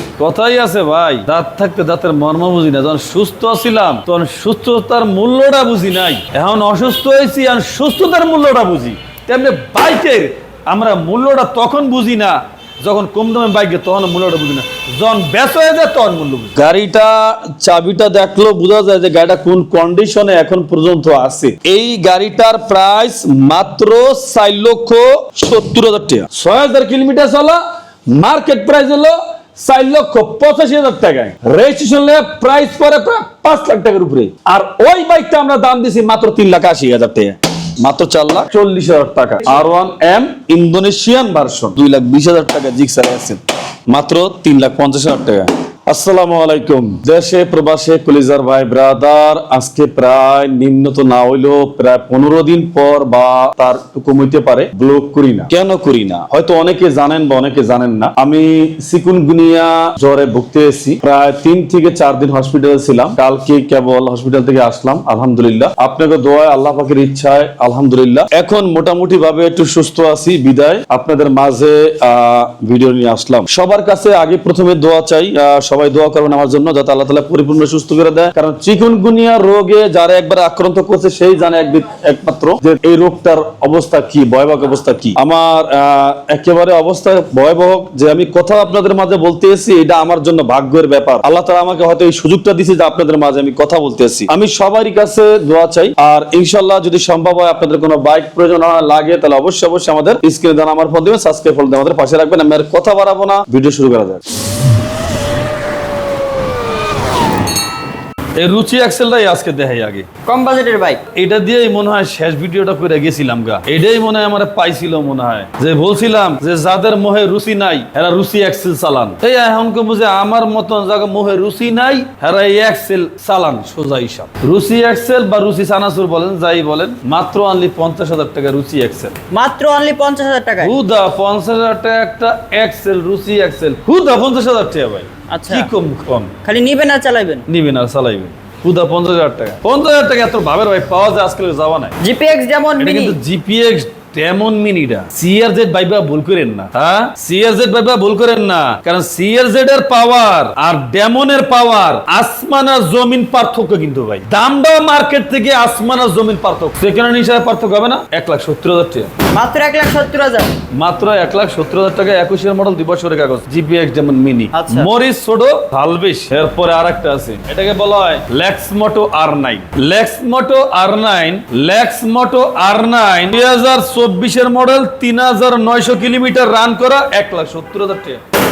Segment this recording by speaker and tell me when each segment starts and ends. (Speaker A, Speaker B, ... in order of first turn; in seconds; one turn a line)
Speaker A: 0.2-104.2
Speaker A: 108.4-110.1
Speaker B: 110.2-111.0
Speaker A: 111.1-129.2
Speaker B: 129.3-130.8
Speaker A: 130.6-136.4
Speaker B: 135.3-135.7
Speaker B: 136.4-137.5
Speaker A: 137.5-142.0
Speaker B: 142.0-143.2
Speaker A: 142.8-159.1
Speaker B: 159.3-160.6
Speaker A: 160.7-178.2
Speaker B: 164.5-164.9